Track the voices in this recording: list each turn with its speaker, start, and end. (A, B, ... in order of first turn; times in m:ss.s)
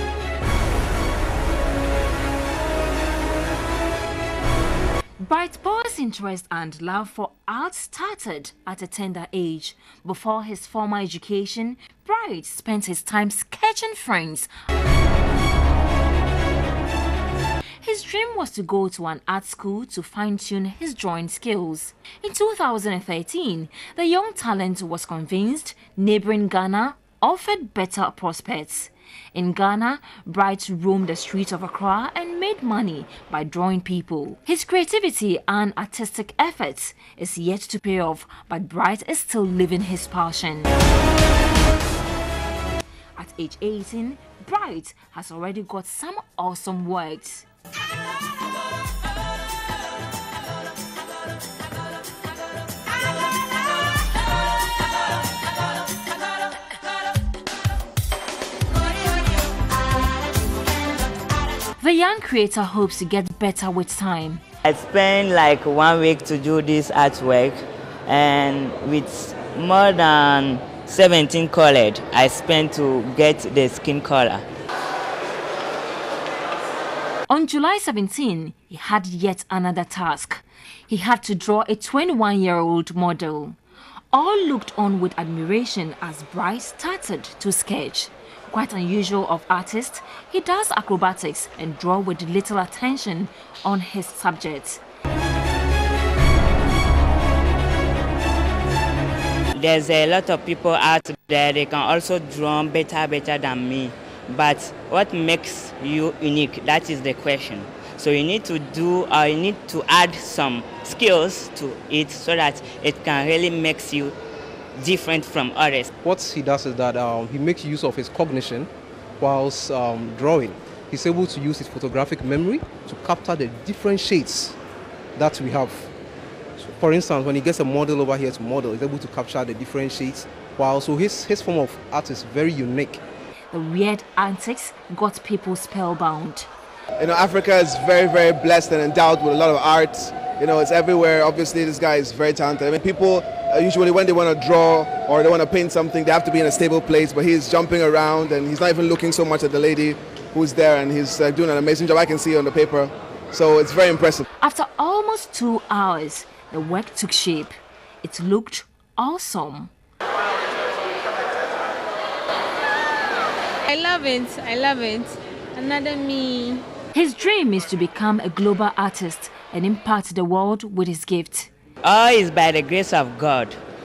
0:05.2-0:14.5 A
0:17.8-0:40.7 A
0:43.2-0:47.4 A
1:01.8-1:04.4 A
1:04.6-1:14.4 B
1:17.3-1:23.6 A
1:24.1-1:34.8 A
1:39.5-1:54.2 B
1:54.7-1:55.9 B
1:56.0-2:04.6 C
2:05.2-2:05.9 C
2:06.6-2:13.0 C
2:13.5-2:16.5 A
2:17.0-2:34.2 D
2:34.4-2:39.7 A
2:43.7-2:46.6 E
2:46.9-2:51.5 A
2:51.8-2:53.6 B